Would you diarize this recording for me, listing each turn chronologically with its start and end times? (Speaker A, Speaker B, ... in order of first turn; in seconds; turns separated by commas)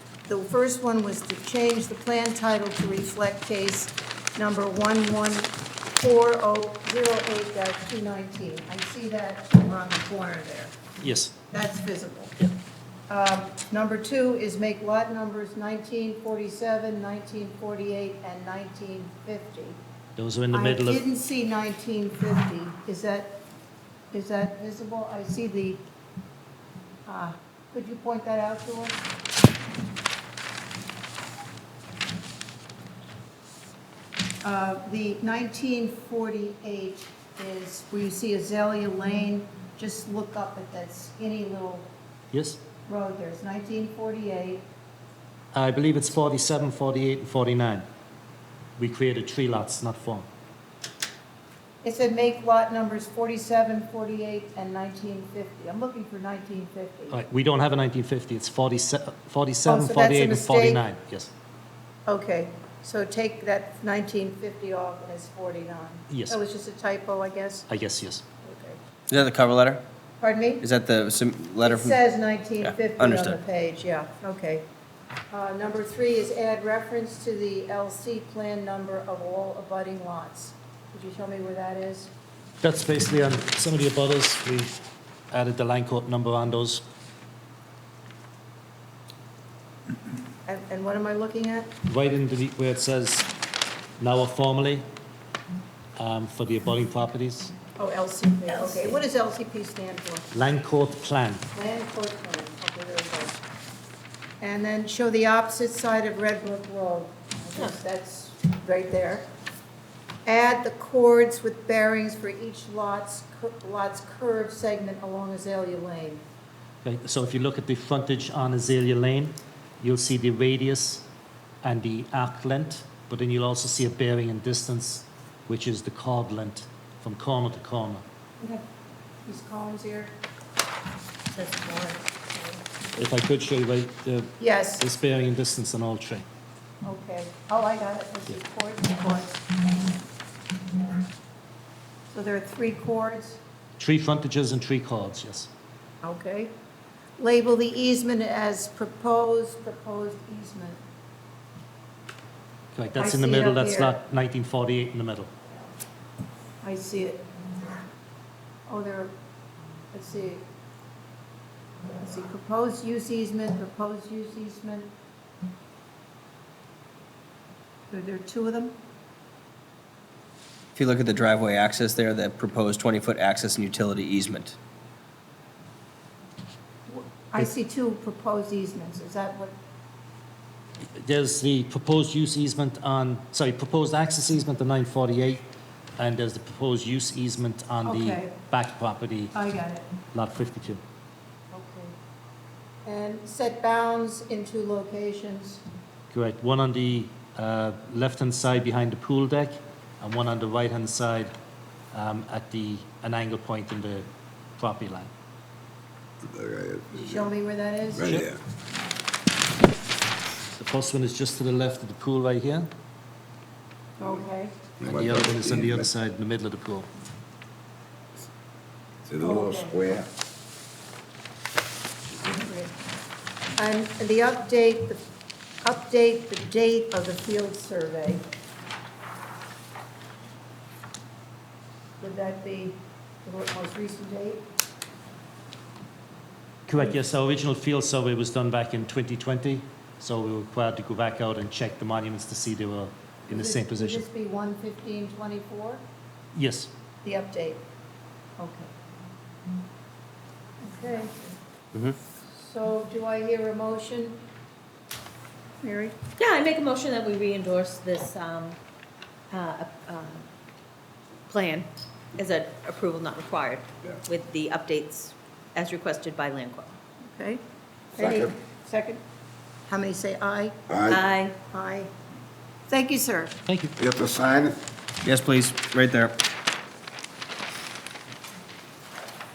Speaker A: 0.3-10.7, Speaker B: 11.0-11.3, Speaker A: 11.5-12.5, Speaker A: 13.1-19.8, Speaker B: 20.2-21.0, Speaker A: 20.5-23.4, Speaker A: 24.1-25.9, Speaker A: 27.1-29.0, Speaker A: 34.4-41.9, Speaker B: 42.3-42.6, Speaker A: 42.9-44.7, Speaker B: 45.5-47.9, Speaker B: 48.8-50.3, Speaker A: 51.8-57.2, Speaker B: 57.1-61.3, Speaker A: 59.7-60.8, Speaker A: 62.1-67.7, Speaker B: 66.1-66.4, Speaker B: 67.7-68.2, Speaker A: 68.4-68.8, Speaker C: 69.1-69.8, Speaker A: 70.2-70.6, Speaker C: 70.6-72.0, Speaker A: 71.6-74.7, Speaker C: 72.6-73.4, Speaker A: 75.3-82.1, Speaker B: 82.6-84.7, Speaker B: 85.3-86.8, Speaker A: 90.5-91.7, Speaker B: 91.9-93.3, Speaker B: 94.0-94.9, Speaker B: 96.0-97.5, Speaker A: 97.8-100.3, Speaker B: 100.3-101.5, Speaker A: 101.5-103.4, Speaker A: 104.4-109.3, Speaker A: 110.2-116.2, Speaker B: 116.8-121.0, Speaker B: 121.6-128.0, Speaker A: 128.4-128.6, Speaker A: 129.2-130.1, Speaker A: 131.3-132.6, Speaker B: 132.9-136.2, Speaker A: 134.4-134.8, Speaker A: 136.8-139.6, Speaker A: 142.1-143.4, Speaker B: 143.8-145.5, Speaker A: 146.0-146.5, Speaker A: 147.2-150.8, Speaker B: 152.7-155.3, Speaker A: 152.9-153.9, Speaker A: 156.6-157.2, Speaker A: 158.7-159.2, Speaker A: 159.9-160.4, Speaker A: 162.0-164.9, Speaker A: 167.9-168.8, Speaker C: 170.8-174.6, Speaker A: 176.9-179.5, Speaker B: 181.0-189.3, Speaker A: 187.8-188.3, Speaker A: 189.3-189.8, Speaker B: 190.1-190.8, Speaker A: 191.5-191.9, Speaker A: 192.8-195.6, Speaker B: 196.1-201.3, Speaker B: 201.9-205.1, Speaker D: 206.2-207.3, Speaker A: 206.9-208.1, Speaker D: 207.9-208.4, Speaker B: 208.0-208.3, Speaker B: 210.6-212.7, Speaker A: 214.0-214.6, Speaker D: 214.8-215.9, Speaker B: 214.8-216.9, Speaker D: 219.1-220.1, Speaker A: 219.2-219.8, Speaker A: 222.3-222.7, Speaker A: 223.6-225.0, Speaker A: 225.6-228.2, Speaker A: 232.0-234.4, Speaker B: 236.7-244.1, Speaker A: 243.3-245.8, Speaker B: 246.3-246.7, Speaker A: 247.0-247.6, Speaker A: 248.4-248.7, Speaker A: 250.6-251.2, Speaker A: 252.3-254.2, Speaker A: 255.6-256.0, Speaker E: 256.2-258.6, Speaker E: 259.3-260.2, Speaker E: 261.3-266.8, Speaker A: 267.1-267.4, Speaker A: 268.0-269.0, Speaker D: 268.0-268.2, Speaker A: 269.7-270.6, Speaker D: 270.7-271.0, Speaker E: 270.9-271.4, Speaker A: 271.5-271.9, Speaker A: 272.7-273.4, Speaker B: 273.5-273.7, Speaker D: 273.8-274.6, Speaker C: 275.0-276.2